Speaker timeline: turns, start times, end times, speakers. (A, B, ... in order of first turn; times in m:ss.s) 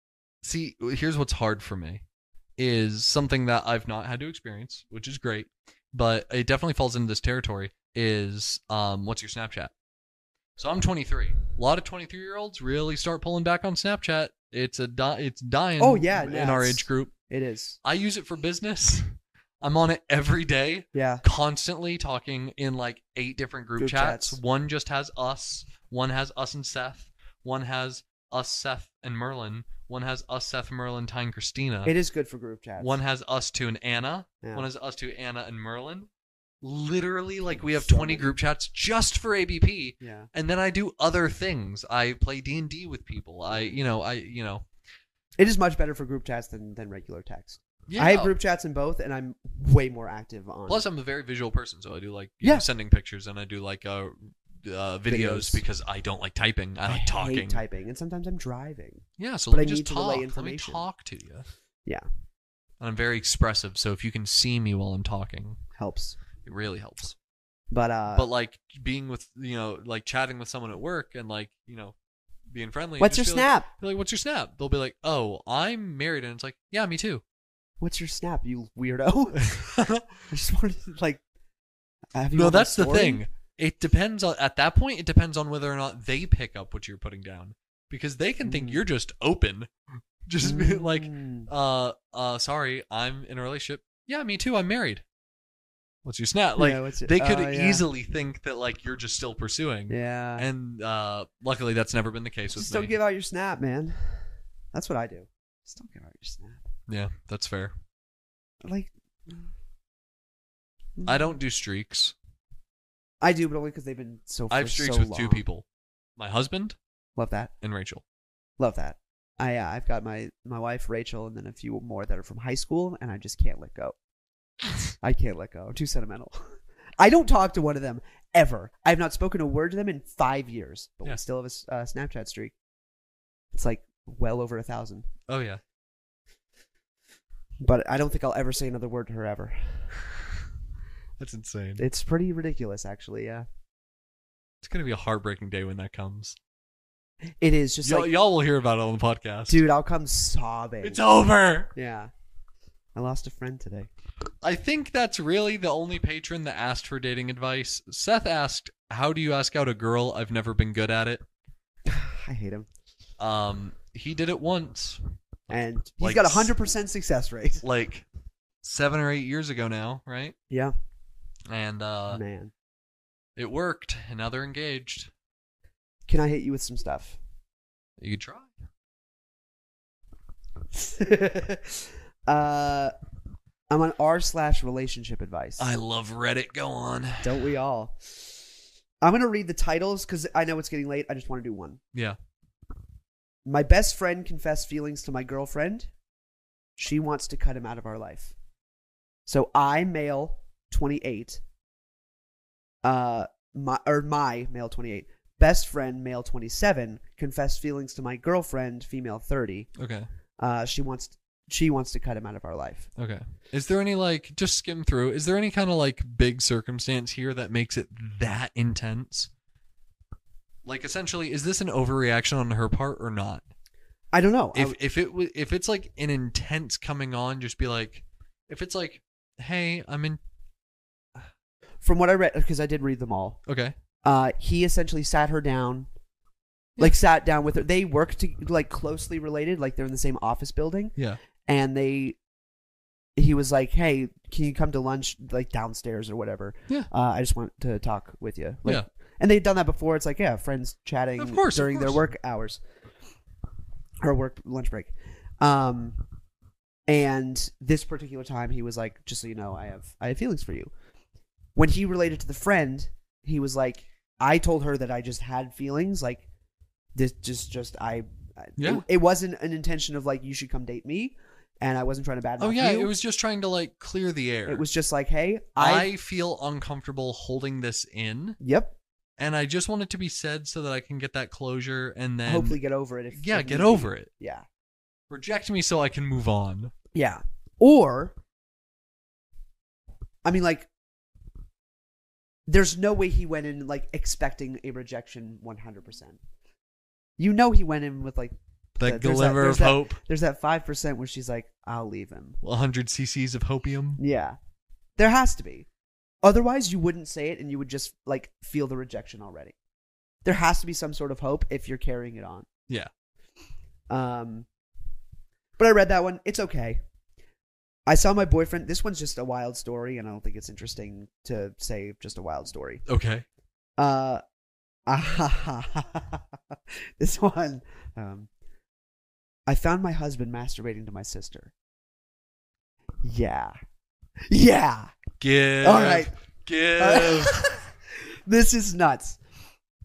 0:00.4-0:02.0 A
0:02.6-0:09.7 A
0:10.6-0:17.1 A
0:15.8-0:17.8 B
0:17.8-0:31.9 A
0:20.9-0:21.2 B
0:23.8-0:24.4 B
0:31.8-0:33.0 B
0:32.8-0:36.1 A
0:34.4-0:34.7 B
0:36.6-0:44.6 A
0:37.5-0:38.3 B
0:40.0-0:40.3 B
0:43.5-0:43.8 B
0:45.4-0:50.8 B
0:47.9-0:48.3 A
0:50.7-0:57.6 A
0:55.1-0:55.6 B
0:56.9-1:00.8 B
0:59.2-1:01.5 A
1:02.8-1:05.6 A
1:05.8-1:06.2 B
1:06.4-1:07.2 A
1:07.7-1:08.3 B
1:08.1-1:11.9 A
1:12.5-1:17.2 A
1:13.0-1:13.7 B
1:17.8-1:19.7 B
1:19.4-1:20.0 A
1:20.3-1:21.2 B
1:22.1-1:23.2 B
1:22.3-1:29.7 A
1:28.4-1:28.8 B
1:30.2-1:35.0 A
1:30.4-1:31.5 B
1:36.0-1:42.9 A
1:36.6-1:37.8 B
1:39.9-1:40.5 B
1:42.5-1:46.7 B
1:46.9-1:47.7 A
1:48.6-1:49.5 B
1:51.0-1:51.3 B
1:51.0-1:52.1 A
1:53.2-1:55.4 B
1:54.5-1:55.6 A
1:56.2-1:56.8 A
1:57.2-1:57.5 B
1:57.6-1:58.0 A
1:58.6-2:03.9 B
2:05.0-2:12.5 B
2:13.5-2:15.1 B
2:15.3-2:15.6 A
2:17.6-2:19.8 B
2:21.2-2:21.8 A
2:21.8-2:23.4 B
2:24.6-2:26.4 A
2:27.4-2:28.1 B
2:27.8-2:29.6 A
2:29.5-2:31.0 B
2:30.8-2:31.7 A
2:31.7-2:32.1 B
2:32.9-2:33.9 B
2:34.4-2:41.2 A
2:41.8-2:42.7 B
2:43.2-2:46.5 A
2:45.5-2:47.6 B
2:47.6-2:48.0 A
2:48.6-2:50.4 A
2:51.5-2:52.2 A
2:52.1-2:52.5 B
2:53.4-2:55.1 A
2:56.1-2:57.2 B
2:58.0-2:58.5 A
3:00.7-3:02.9 B
3:03.7-3:05.7 B
3:05.6-3:07.4 A
3:07.2-3:08.2 B
3:09.0-3:11.8 B
3:13.4-3:15.9 B
3:16.8-3:18.3 B
3:19.2-3:21.4 B
3:22.8-3:29.7 B
3:29.8-3:30.1 A
3:30.4-3:32.9 B
3:33.0-3:39.3 A
3:40.6-3:43.4 A
3:44.1-3:44.8 B
3:44.5-3:50.2 A
3:51.8-3:53.4 B
3:53.5-3:53.7 A
3:54.0-3:55.9 B
3:56.8-4:00.9 B
4:01.4-4:02.2 B
4:03.2-4:12.6 B
4:11.2-4:12.0 A
4:14.0-4:16.0 B
4:16.9-4:20.7 B
4:21.5-4:26.2 B
4:26.9-4:32.9 B
4:28.6-4:28.8 A
4:32.4-4:34.6 A
4:34.5-4:35.9 B
4:35.6-4:38.4 A
4:38.4-4:38.7 B
4:39.2-4:42.6 A
4:42.2-4:44.4 B
4:43.1-4:44.1 A
4:45.1-4:46.7 A
4:46.9-4:48.1 B
4:50.2-4:50.7 B
4:52.5-4:56.2 B
4:57.2-5:02.4 B
4:58.8-5:00.0 A
5:02.4-5:04.0 A
5:04.0-5:04.4 B
5:05.0-5:05.7 B
5:06.2-5:09.5 B
5:10.2-5:12.5 B
5:13.9-5:14.5 B
5:15.6-5:16.8 B
5:17.9-5:22.8 B
5:22.9-5:23.2 A
5:23.8-5:24.2 B
5:24.9-5:28.3 B
5:29.5-5:31.5 B
5:33.0-5:33.6 B
5:34.3-5:34.9 B
5:35.2-5:37.4 A
5:35.6-5:36.1 B
5:36.8-5:37.7 B
5:38.2-5:39.2 B